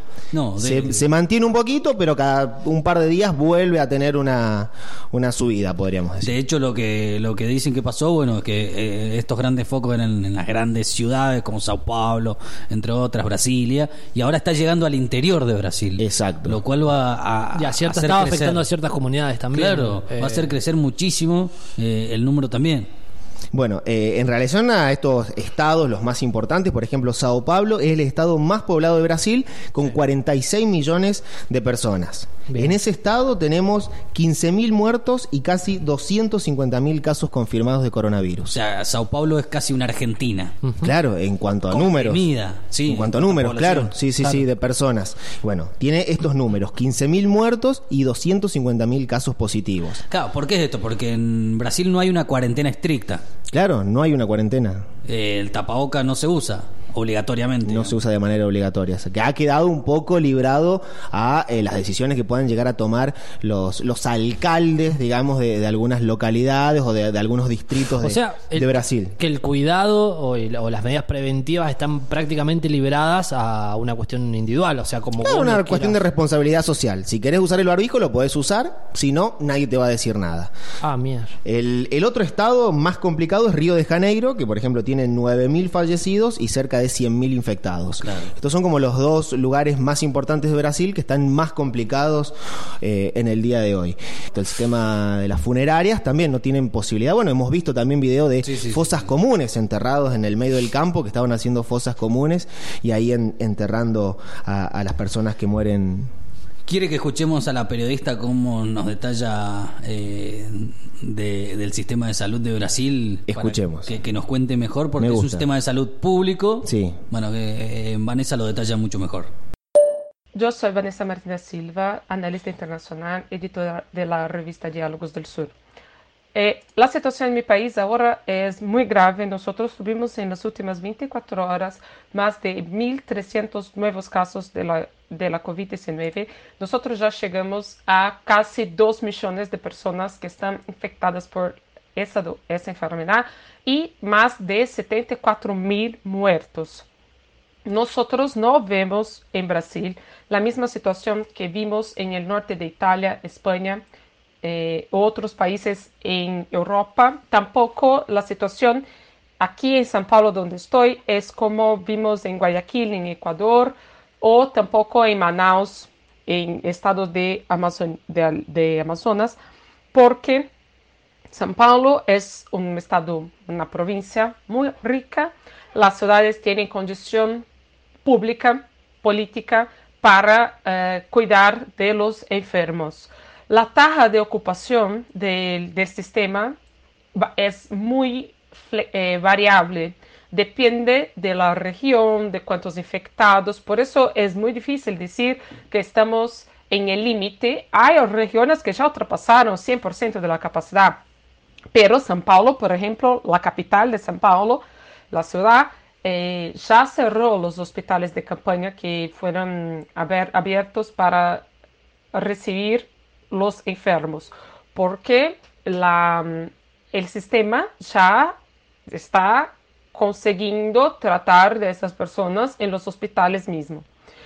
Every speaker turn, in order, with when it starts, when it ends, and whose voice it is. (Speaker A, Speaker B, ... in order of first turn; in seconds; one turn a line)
Speaker A: 0.3-1.1
Speaker B: 0.6-6.4
Speaker A: 6.2-18.6
Speaker B: 16.0-16.6
Speaker C: 17.6-20.5
Speaker A: 19.5-22.9
Speaker B: 23.5-38.5
Speaker A: 38.5-40.6
Speaker B: 40.8-42.3
Speaker A: 41.7-44.0
Speaker B: 42.9-50.0
Speaker A: 50.1-53.2
Speaker B: 53.5-54.9
Speaker A: 55.1-58.0
Speaker B: 57.6-69.2
Speaker C: 68.0-76.0
Speaker B: 75.2-80.5
Speaker C: 80.8-81.3
Speaker B: 81.5-106.1
Speaker A: 88.0-88.3
Speaker A: 98.4-99.1
Speaker A: 106.7-119.3
Speaker B: 113.3-114.0
Speaker B: 115.0-115.5
Speaker B: 116.7-117.0
Speaker D: 120.3-125.5
Speaker D: 126.3-146.9
Speaker D: 147.7-153.8
Speaker D: 154.4-158.9
Speaker D: 159.4-169.4
Speaker D: 169.9-170.5
Speaker D: 171.3-177.4
Speaker D: 178.0-186.6
Speaker D: 187.2-201.0
Speaker D: 201.7-211.5
Speaker D: 212.1-218.4
Speaker D: 218.9-223.8